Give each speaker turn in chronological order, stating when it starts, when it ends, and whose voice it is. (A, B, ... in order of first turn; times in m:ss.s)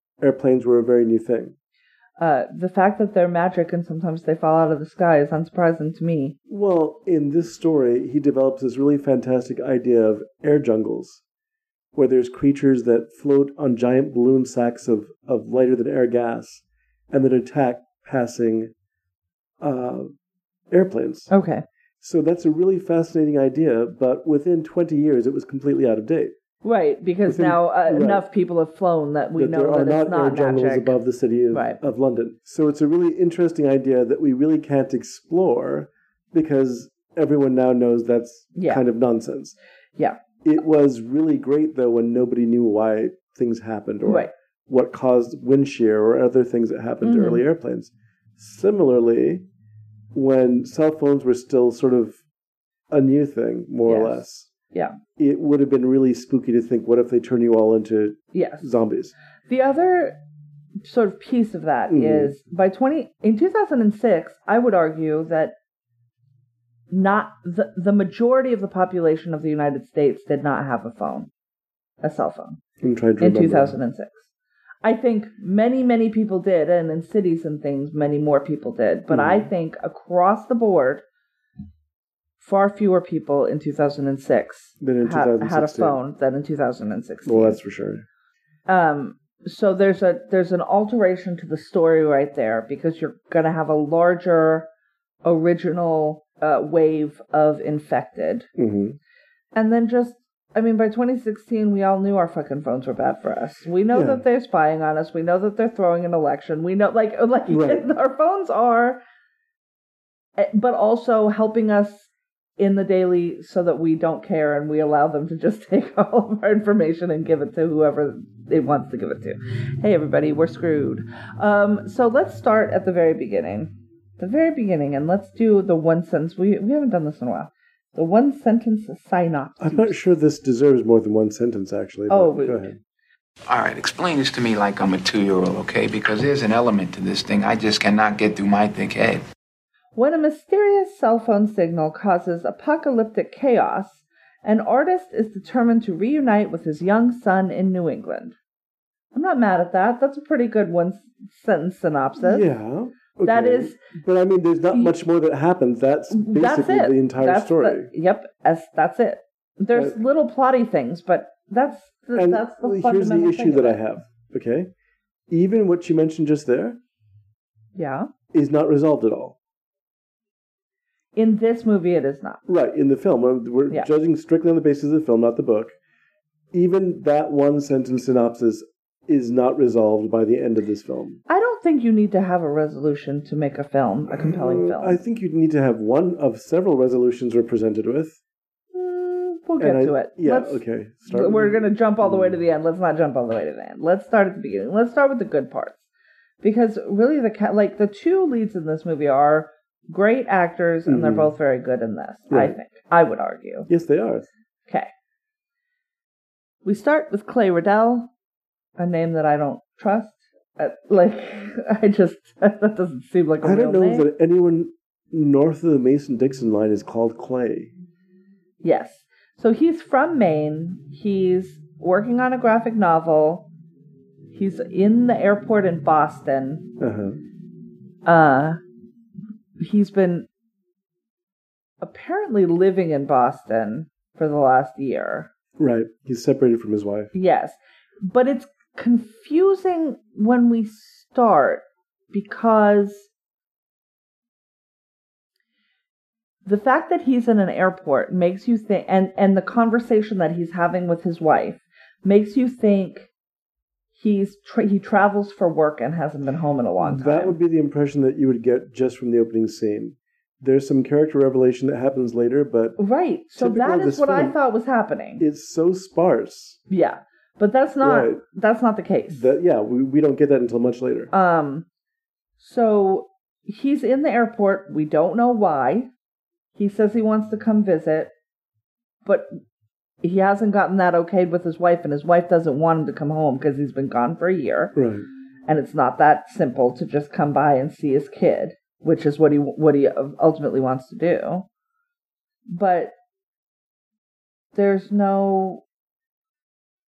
0:00.2-0:01.5 A
0:02.2-0:06.4 B
0:06.5-0:11.2 A
0:11.9-0:18.7 A
0:19.6-0:20.1 A
0:20.7-0:21.3 A
0:21.3-0:21.6 B
0:22.0-0:26.3 A
0:26.6-0:31.0 B
0:27.2-0:28.2 A
0:29.4-0:39.6 A
0:31.5-0:31.8 B
0:38.5-0:38.8 B
0:40.4-0:49.4 A
0:44.0-0:44.3 B
0:47.0-0:47.4 B
0:50.1-0:52.2 A
0:52.9-0:54.5 A
0:53.9-0:55.0 B
0:55.2-0:59.1 A
0:58.3-0:58.6 B
0:59.5-1:00.2 B
1:00.8-1:05.5 B
1:01.9-1:02.3 A
1:06.9-1:11.3 B
1:12.0-1:12.6 B
1:12.8-1:13.8 A
1:13.2-1:14.3 B
1:14.8-1:21.0 B
1:19.1-1:19.5 A
1:22.4-1:27.6 B
1:24.8-1:26.0 A
1:27.2-1:28.0 A
1:28.7-1:34.7 B
1:35.2-1:38.5 B
1:38.6-1:39.0 A
1:39.5-1:49.0 B
1:43.9-1:44.2 A
1:47.5-1:47.9 A
1:50.4-2:09.9 B
2:09.6-2:12.8 A
2:12.1-2:12.8 B
2:13.5-2:19.2 C
2:20.0-2:28.4 B
2:29.1-2:32.5 B
2:32.2-2:37.9 A
2:33.2-2:33.8 B
2:36.1-2:43.8 B
2:42.1-2:44.7 A
2:45.3-2:46.8 A
2:47.8-2:48.1 B
2:48.3-2:49.4 A
2:51.2-2:52.4 B
2:52.4-2:55.7 A
2:56.5-3:01.2 A
3:01.3-3:05.0 B
3:04.1-3:08.2 A
3:08.7-3:15.8 B
3:09.6-3:12.4 A
3:16.4-3:23.7 B
3:20.8-3:21.3 A
3:22.3-3:22.6 A
3:23.7-3:24.3 A
3:26.6-3:28.1 B
3:28.8-3:34.1 B
3:33.4-3:37.7 A
3:38.6-3:43.4 B
3:44.3-3:46.6 B
3:46.8-3:47.2 A
3:48.0-3:48.6 B
3:49.6-3:50.3 B
3:51.8-3:55.3 B
3:55.6-3:57.1 A
3:57.1-4:03.1 B
4:06.4-4:13.1 B
4:13.9-4:17.4 B
4:16.8-4:22.8 A
4:22.8-4:25.2 B
4:23.4-4:24.4 A
4:25.2-4:26.6 A
4:26.7-4:29.3 B
4:27.8-4:28.2 A
4:29.1-4:31.1 A
4:31.1-4:31.6 B
4:32.4-4:35.9 B
4:36.6-4:38.1 B
4:40.0-4:44.8 B
4:44.7-4:45.0 A
4:45.5-4:51.5 B
4:52.5-4:52.9 B
4:54.5-4:55.6 B